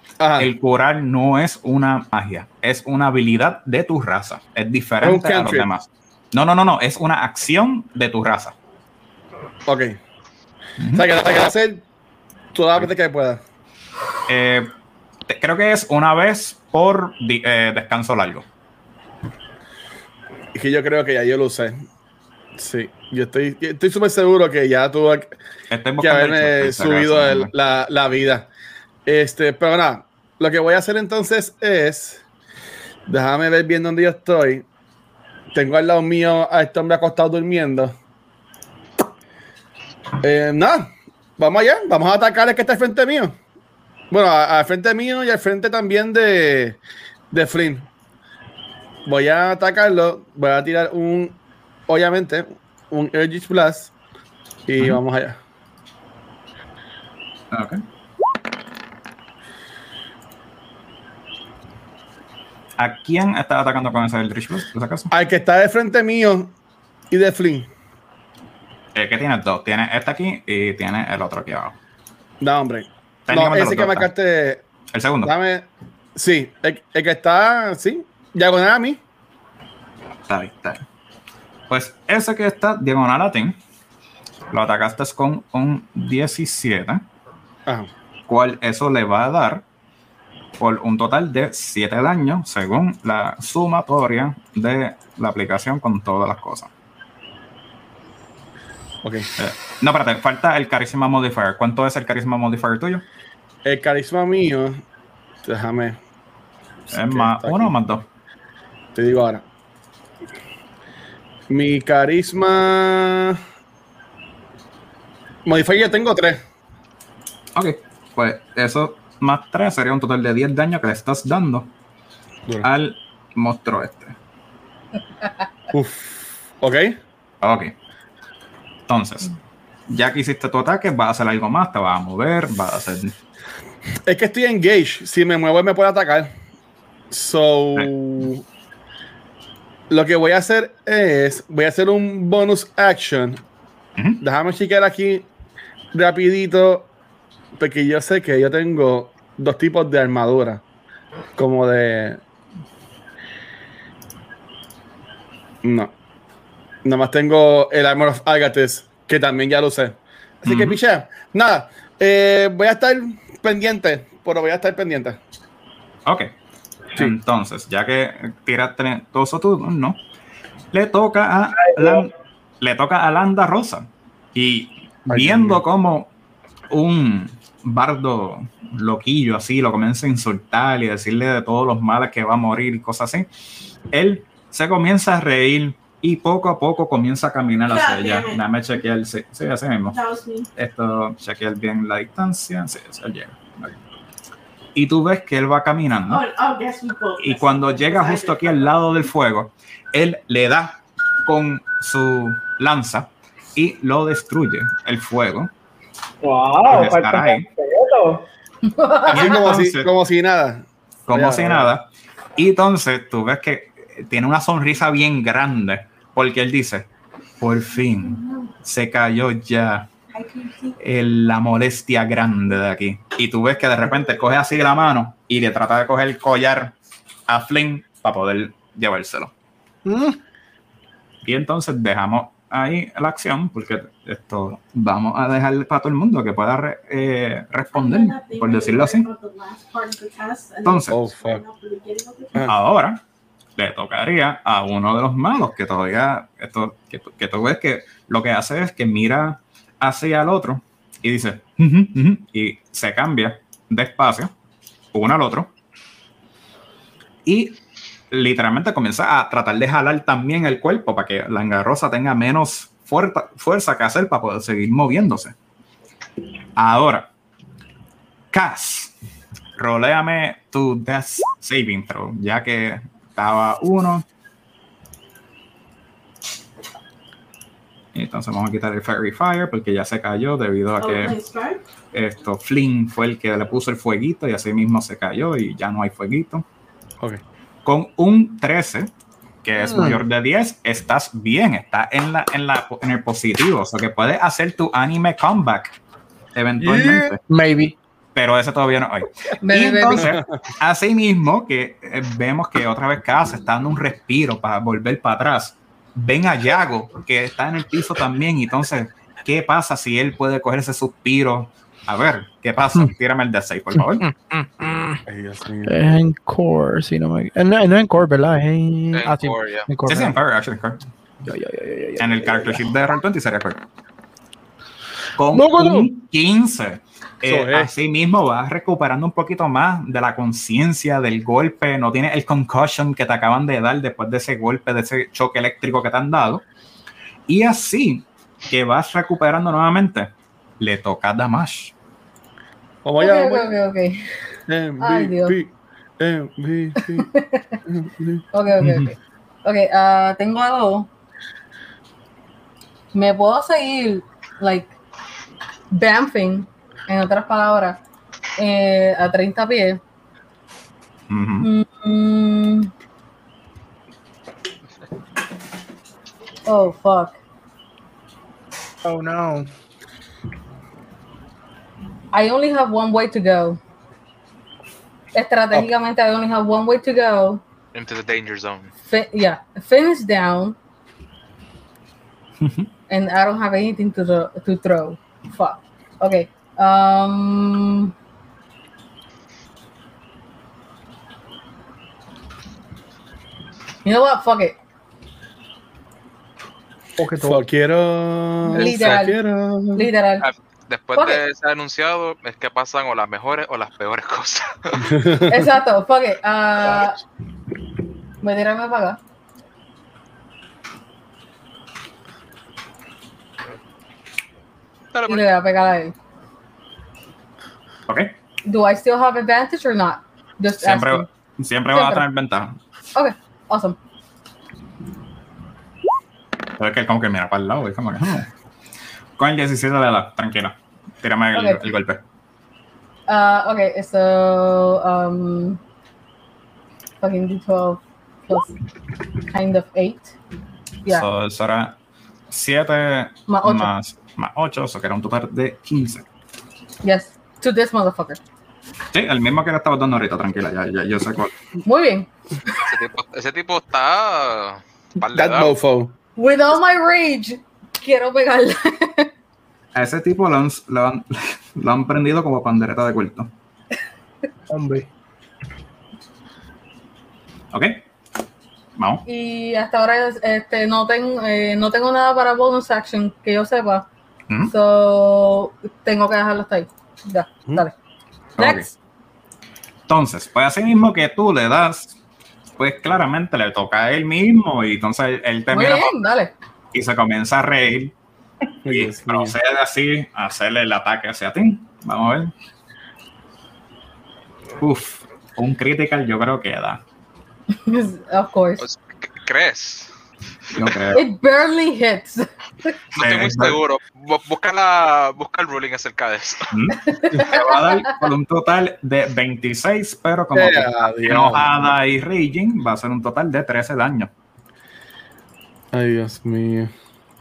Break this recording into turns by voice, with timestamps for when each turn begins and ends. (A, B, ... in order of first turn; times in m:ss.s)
0:00.2-0:00.5 A
0:00.4-0:08.6 B
0:05.0-0:05.7 A
0:09.7-0:10.0 A
0:10.8-0:11.0 B
0:10.9-0:11.8 A
0:12.5-0:13.4 A
0:14.3-0:14.7 B
0:15.3-0:18.4 B
0:20.5-0:21.8 A
0:22.6-0:25.4 A
0:25.7-0:27.5 B
0:26.0-0:28.5 A
0:29.1-0:32.2 A
0:33.1-0:34.6 A
0:35.5-0:37.9 A
0:40.2-0:43.4 A
0:44.1-0:46.8 A
0:47.3-0:47.9 A
0:49.1-0:51.4 A
0:51.9-0:53.9 A
0:54.7-0:55.4 A
0:57.5-0:57.8 B
1:02.8-1:05.1 B
1:05.1-1:06.5 A
1:07.1-1:07.7 A
1:09.0-1:11.7 B
1:12.4-1:14.6 A
1:13.3-1:14.1 B
1:14.9-1:15.3 B
1:15.2-1:19.0 A
1:20.3-1:20.8 B
1:21.7-1:23.6 B
1:24.5-1:27.0 B
1:28.3-1:29.6 B
1:30.6-1:36.7 B
1:39.0-1:39.3 A
1:39.4-1:43.0 B
1:43.6-1:44.8 A
1:45.4-1:46.0 A
1:46.9-1:48.0 B
1:46.9-1:47.7 A
1:49.0-1:49.4 A
1:51.5-1:53.4 A
1:55.5-1:56.4 A
1:57.6-2:01.7 B
2:02.6-2:04.2 B
2:05.7-2:07.0 A
2:07.4-2:07.7 B
2:08.9-2:09.3 B
2:09.9-2:13.1 B
2:14.1-2:16.3 A
2:17.1-2:18.4 A
2:19.9-2:23.4 A
2:24.2-2:25.3 A
2:25.9-2:26.9 A
2:27.6-2:30.6 A
2:31.4-2:32.2 A
2:35.6-2:35.9 A
2:36.8-2:45.2 A
2:40.5-2:40.8 B
2:47.0-2:50.0 B
2:50.7-2:56.1 B
2:51.6-2:52.1 C
2:55.1-2:55.6 A
2:56.7-3:03.3 B
3:03.9-3:10.0 B
3:07.7-3:08.4 D
3:09.9-3:10.5 D
3:10.6-3:13.8 B
3:14.8-3:16.2 B
3:16.1-3:18.7 D
3:17.2-3:25.5 B
3:26.2-3:28.3 C
3:26.7-3:27.5 B
3:28.7-3:29.4 E
3:29.1-3:29.9 B
3:29.1-3:31.7 A
3:31.1-3:36.9 B
3:37.4-3:39.9 B
3:40.1-3:40.7 D
3:40.8-3:46.7 B
3:47.3-3:49.3 B
3:49.9-3:50.2 F
3:51.2-3:59.1 B
3:57.7-4:02.5 D
4:00.6-4:01.0 B
4:00.9-4:01.4 A
4:02.4-4:03.0 B
4:03.6-4:14.3 B
4:14.9-4:15.5 B
4:17.3-4:17.6 B
4:18.1-4:25.3 B
4:26.6-4:27.1 B
4:28.3-4:28.9 B
4:29.6-4:34.0 B
4:37.9-4:41.2 B
4:40.8-4:41.6 D
4:41.9-4:46.4 B
4:47.6-4:48.9 B
4:49.4-4:55.8 B
4:49.6-4:50.0 F
4:56.4-4:57.2 B
4:56.6-4:57.2 A
4:57.3-4:57.8 F
4:58.2-5:14.0 B
4:59.4-5:00.1 E
5:13.8-5:15.0 F
5:15.1-5:15.8 A
5:15.7-5:20.2 F
5:18.9-5:19.7 G
5:19.9-5:20.9 B
5:21.2-5:22.7 F
5:22.0-5:23.6 B
5:25.2-5:36.4 B
5:25.3-5:25.9 F
5:27.2-5:27.7 A
5:37.3-5:41.7 B
5:42.8-5:43.5 A
5:43.0-5:44.0 E
5:44.5-5:47.1 A
5:44.8-5:45.4 E
5:46.9-5:47.6 E
5:47.7-5:48.3 A
5:48.3-5:50.9 E
5:48.6-5:48.9 B
5:52.9-5:54.7 E
5:55.7-5:57.8 E
5:58.4-5:59.8 E
6:01.1-6:01.5 B
6:01.4-6:02.7 E
6:06.5-6:07.2 E
6:08.8-6:09.5 F
6:12.1-6:13.6 E
6:15.1-6:17.4 E
6:17.7-6:18.7 G
6:18.9-6:20.6 E
6:22.4-6:22.7 B
6:22.9-6:27.9 E
6:33.8-6:34.6 E
6:37.0-6:37.4 F
6:37.2-6:39.9 A
6:38.5-6:39.2 E
6:38.6-6:39.0 G
6:39.8-6:40.3 E
6:40.2-6:44.9 G
6:41.0-6:41.2 E
6:44.8-6:45.4 A
6:45.3-6:47.0 E
6:48.2-6:49.0 E
6:54.9-6:55.3 G
6:55.1-6:55.9 E
6:57.9-6:58.1 B
6:58.5-7:01.1 E
7:00.6-7:02.6 B
7:01.7-7:02.0 E
7:03.0-7:03.8 E
7:06.6-7:08.3 B
7:09.2-7:12.0 B
7:11.3-7:11.6 E
7:13.1-7:15.6 E
7:17.0-7:18.5 E
7:19.3-7:20.1 E
7:20.9-7:21.8 B
7:22.3-7:26.1 B
7:23.3-7:23.7 E
7:26.8-7:28.2 E
7:28.9-7:31.3 B
7:31.6-7:32.6 E
7:32.7-7:35.6 G
7:35.0-7:35.9 A
7:36.2-7:39.1 E
7:39.7-7:43.3 B
7:44.5-7:44.9 F
7:47.5-7:47.8 B
7:48.8-7:49.0 B
7:49.1-7:53.9 E
7:54.5-7:57.7 E
7:58.4-7:58.7 B
7:58.4-7:58.7 E
7:59.9-8:02.0 B
8:02.6-8:06.0 B
8:05.5-8:06.3 E
8:06.7-8:07.9 B
8:08.6-8:09.4 A
8:08.7-8:12.3 B
8:14.6-8:16.8 B
8:17.6-8:18.7 E
8:18.6-8:19.9 G
8:20.5-8:21.0 B
8:20.9-8:22.3 E
8:22.9-8:26.5 G
8:23.0-8:23.6 B
8:26.5-8:34.1 B
8:26.9-8:27.4 E
8:30.3-8:31.5 A
8:35.7-8:36.7 A